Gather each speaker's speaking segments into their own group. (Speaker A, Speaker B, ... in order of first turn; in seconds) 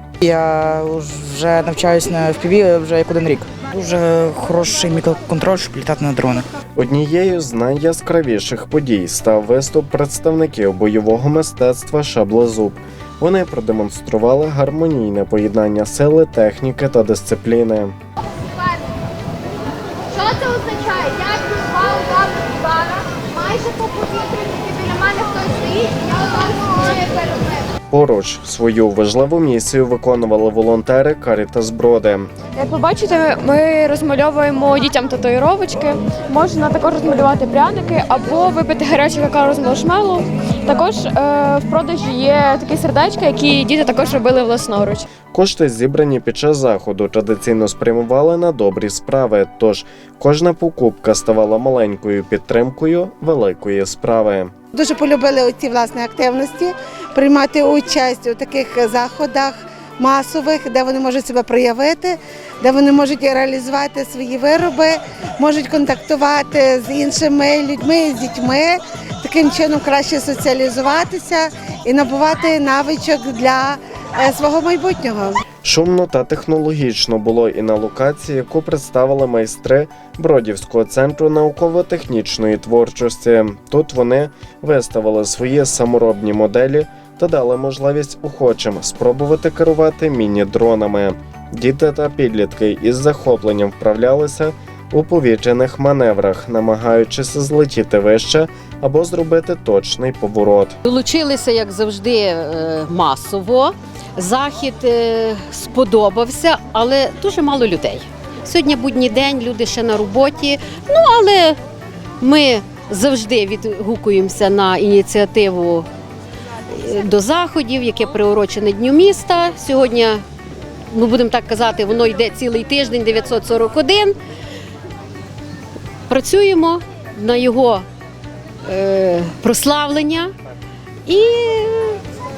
Speaker A: 0.2-6.5
Speaker B: 6.7-17.9, 27.9-32.3, 45.3-54.5, 75.6-100.8
Speaker C: 20.2-27.4
Speaker D: 32.6-45.0
Speaker E: 54.7-75.4
Speaker F: 100.8-111.6, 112.2-115.9, 116.7-120.2, 120.9-124.1, 126.1-127.8, 128.7-130.3, 131.1-132.0